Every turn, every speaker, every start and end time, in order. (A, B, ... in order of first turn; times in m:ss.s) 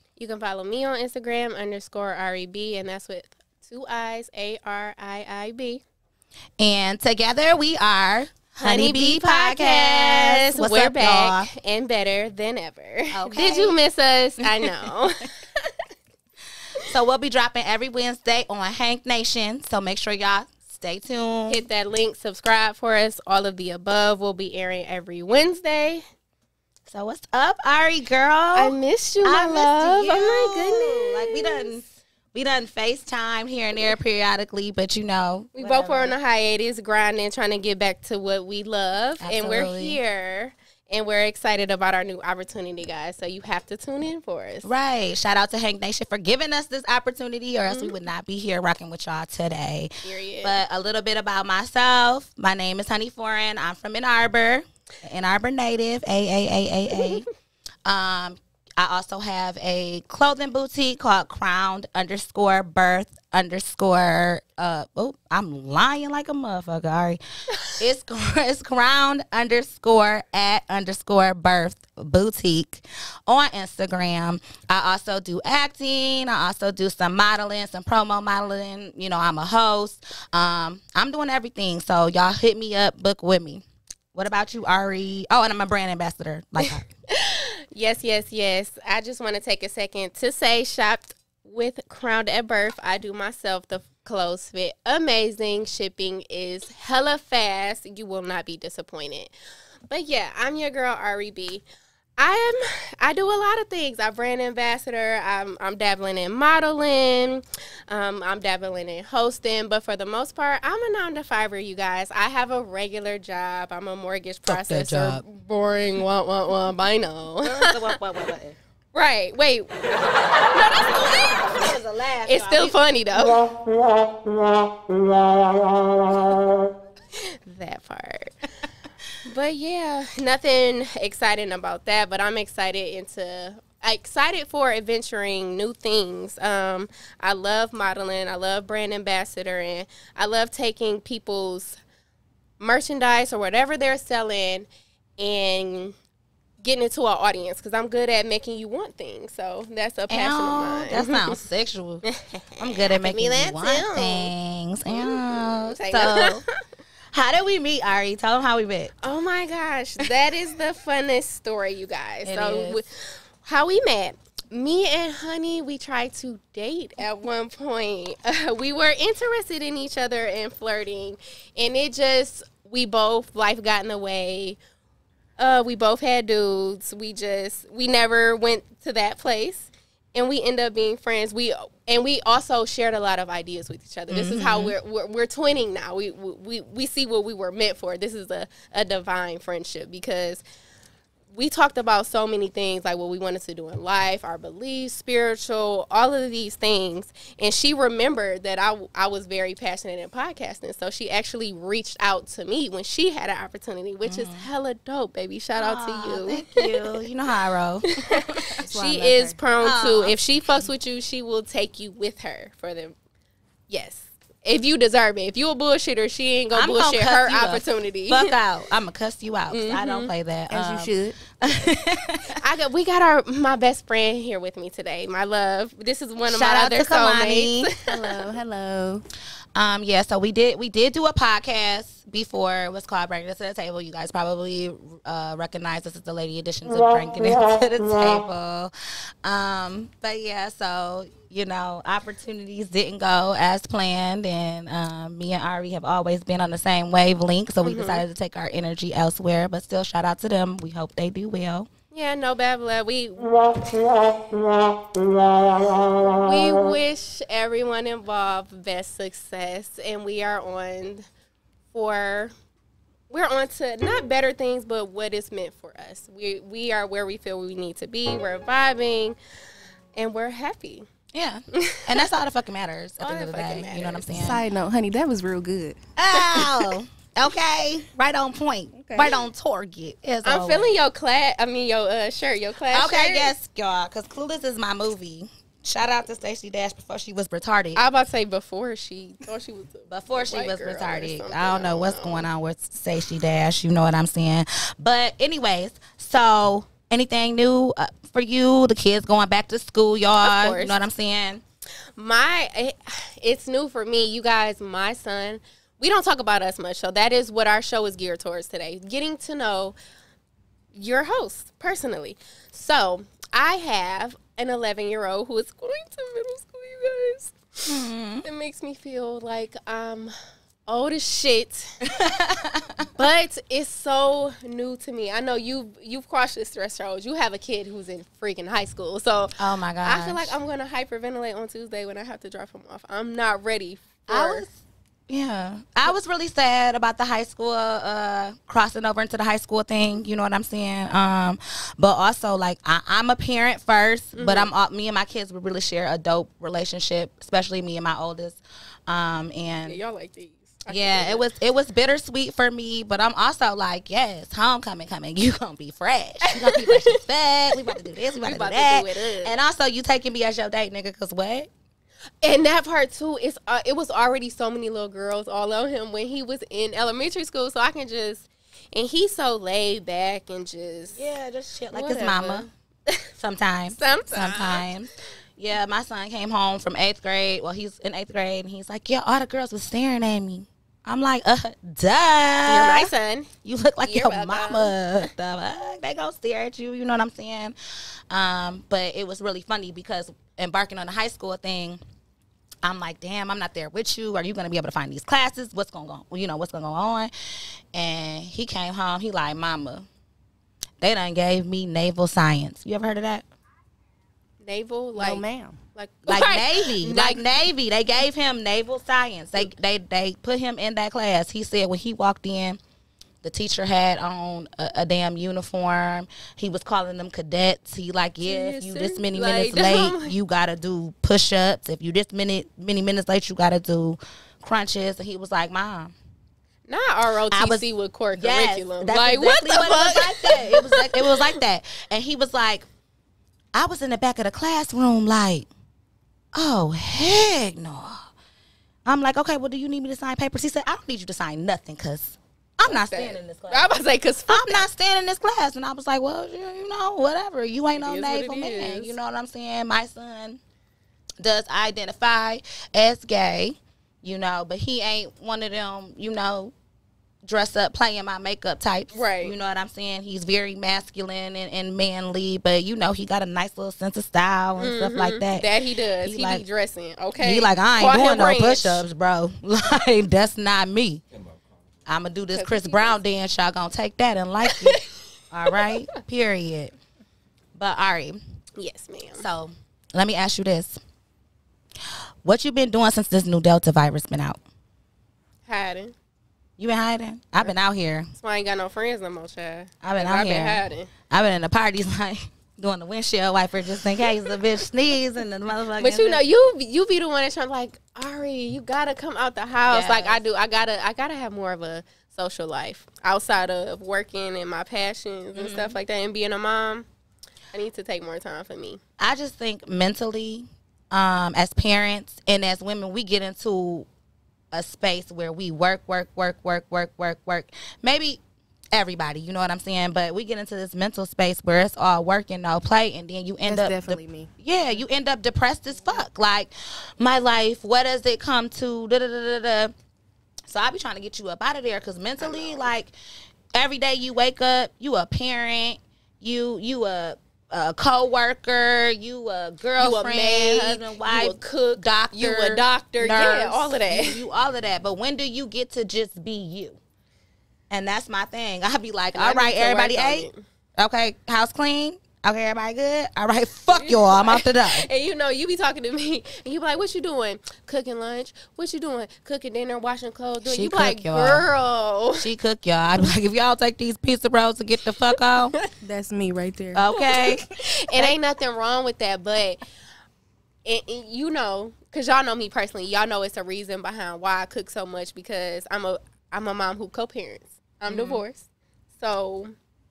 0:00.2-0:05.8 A
0:06.6-0:11.5 B
0:08.6-0:15.7 A
0:13.1-0:13.8 B
0:14.4-0:14.9 B
0:16.9-0:21.6 B
0:21.5-0:26.0 A
0:26.9-0:36.1 B
0:28.5-0:31.7 A
0:35.6-0:44.7 A
0:39.2-0:40.0 B
0:44.6-0:57.2 B
0:47.7-0:47.9 A
0:50.0-0:50.6 A
0:57.0-0:57.2 A
0:57.8-1:26.9 B
1:27.1-1:39.3 A
1:39.9-1:41.6 A
1:42.2-1:58.0 A
1:54.5-1:55.2 B
1:57.4-1:58.6 B
1:58.9-1:59.8 A
2:00.5-2:01.4 A
2:00.5-2:02.8 B
2:02.2-2:03.4 A
2:07.2-2:08.3 A
2:09.2-2:21.8 A
2:22.6-2:26.0 A
2:26.6-2:31.4 A
2:30.1-2:32.0 B
2:32.1-2:34.3 A
2:32.6-2:36.4 B
2:34.9-2:36.4 A
2:37.1-2:38.9 B
2:39.0-2:54.6 A
2:42.2-2:42.8 B
2:55.4-3:10.4 A
3:04.1-3:04.8 B
3:11.3-3:26.8 A
3:24.0-3:24.4 B
3:25.6-3:27.8 B
3:27.9-3:32.9 A
3:28.6-3:29.4 C
3:29.6-3:30.1 B
3:33.7-3:38.3 A
3:36.5-3:42.3 B
3:39.5-3:40.1 A
3:40.5-3:41.2 C
3:42.4-3:47.9 A
3:46.3-3:47.7 B
3:47.9-3:49.0 C
3:49.6-3:58.7 B
3:59.2-4:11.7 B
4:07.6-4:08.0 A
4:11.9-4:14.0 A
4:15.9-4:21.1 A
4:21.7-4:22.3 A
4:23.1-4:29.2 A
4:30.0-4:30.8 A
4:31.1-4:34.4 B
4:31.5-4:32.0 A
4:33.0-4:34.1 A
4:34.1-4:35.8 C
4:36.0-4:40.7 B
4:36.1-4:36.7 A
4:38.7-4:39.1 C
4:40.2-4:43.3 A
4:42.7-4:47.8 B
4:47.7-4:52.2 A
4:49.9-5:01.4 B
5:00.2-5:00.8 A
5:02.0-5:09.7 A
5:10.7-5:17.7 A
5:17.7-5:18.2 B
5:18.2-5:20.1 A
5:20.7-5:21.8 A
5:21.8-5:22.9 B
5:23.0-5:34.4 A
5:29.4-5:30.4 B
5:34.1-5:49.8 B
5:44.1-5:44.5 A
5:49.6-5:51.2 A
5:50.7-6:01.5 B
5:56.2-5:57.0 A
5:57.7-5:59.3 A
6:02.2-6:11.0 A
6:10.9-6:12.5 B
6:11.7-6:13.0 A
6:13.2-6:22.9 B
6:13.7-6:14.7 A
6:22.5-6:23.3 A
6:23.4-6:27.6 B
6:23.8-6:24.7 A
6:28.1-6:31.8 B
6:32.6-6:37.1 B
6:37.7-6:39.8 B
6:40.8-6:43.2 B
6:44.4-6:45.2 A
6:45.0-6:45.6 C
6:45.7-6:47.2 A
6:46.1-6:52.6 B
6:53.2-7:05.9 B
6:58.2-7:00.1 A
7:06.7-7:11.2 A
7:07.3-7:12.7 B
7:13.5-7:15.5 B
7:16.3-7:18.1 B
7:18.8-7:23.7 B
7:22.6-7:24.6 A
7:24.3-7:30.4 B
7:27.8-7:28.9 A
7:31.2-7:36.5 B
7:37.2-7:45.5 B
7:38.9-7:39.3 A
7:44.6-7:48.8 A
7:46.0-7:46.4 B
7:47.2-7:51.0 B
7:51.8-7:54.8 B
7:52.3-7:53.0 A
7:54.4-7:54.9 A
7:55.3-7:56.7 B
7:57.6-7:58.2 B
7:58.6-7:59.2 A
7:59.2-8:00.8 B
8:02.2-8:04.4 B
8:05.5-8:05.9 A
8:06.6-8:08.1 B
8:08.1-8:10.9 A
8:09.8-8:16.2 B
8:15.8-8:26.9 A
8:19.6-8:20.2 B
8:25.3-8:25.8 B
8:27.5-8:28.8 A
8:29.0-8:33.9 B
8:34.5-8:38.2 B
8:38.7-8:49.7 B
8:43.4-8:44.3 C
8:50.5-8:52.9 B
8:52.2-8:52.6 A
8:53.5-9:06.8 B
8:59.8-9:04.2 A
9:07.7-9:14.8 B
9:09.1-9:10.4 A
9:13.7-9:22.3 A
9:20.4-9:21.4 B
9:22.2-9:25.5 B
9:25.8-9:26.9 C
9:26.7-9:27.4 B
9:27.0-9:29.6 A
9:30.6-9:38.5 A
9:37.9-9:38.2 B
9:39.0-9:39.6 A